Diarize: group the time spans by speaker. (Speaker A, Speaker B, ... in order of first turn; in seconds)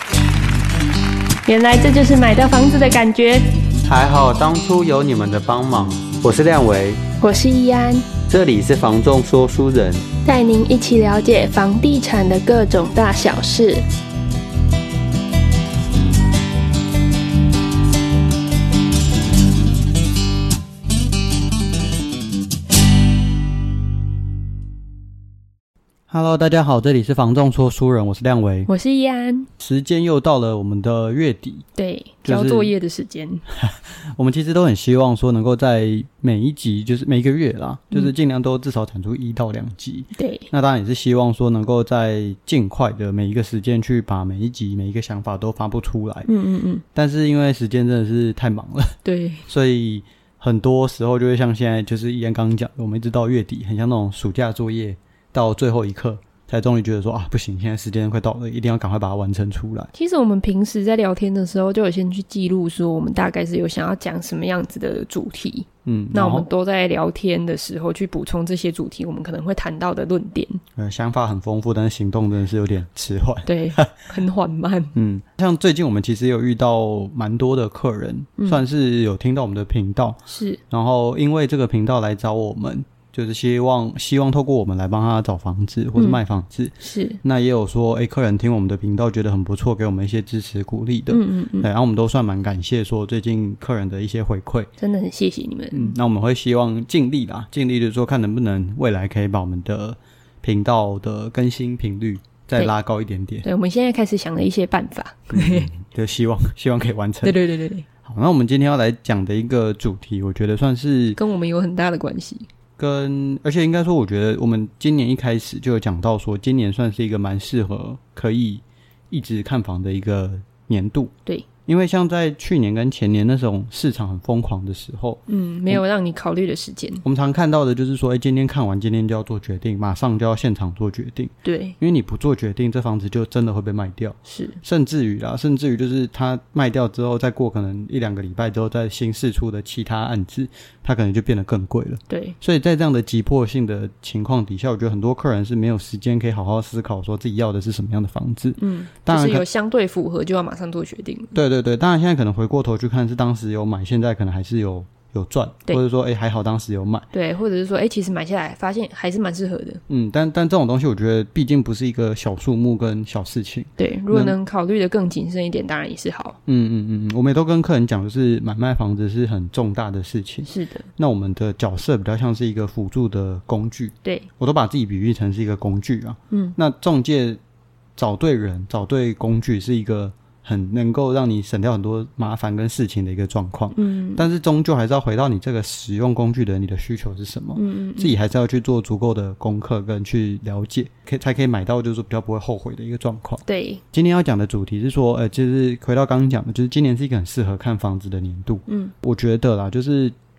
Speaker A: 1.5-3.5, 7.2-8.1, 10.2-13.8, 28.7-29.5, 31.8-33.5, 40.1-40.5, 46.3-46.8, 49.0-49.5, 59.9-70.6, 73.5-74.9, 78.4-78.6, 80.3-80.6, 86.8-87.2, 91.1-91.7, 94.8-96.0, 103.5-105.7, 107.2-107.9, 111.2-112.5, 125.3-127.0, 131.4-131.8, 134.3-134.6, 142.1-142.4, 148.6-151.4, 157.1-159.8, 163.8-166.4, 170.5-170.9, 176.3-176.6, 183.8-184.2, 187.6-188.2, 193.5-193.8, 198.7-198.9
Speaker B: 3.9-7.0, 8.3-10.0, 26.1-28.7, 29.6-31.7, 32.2-32.7, 33.5-46.3, 47.0-59.9, 65.8-66.5, 70.8-74.0, 75.0-94.7, 95.7-103.5, 105.3-107.4, 108.0-111.2, 112.8-121.1, 121.7-125.8, 127.0-149.5, 151.3-157.1, 159.9-164.4, 166.5-177.4, 178.0-200.2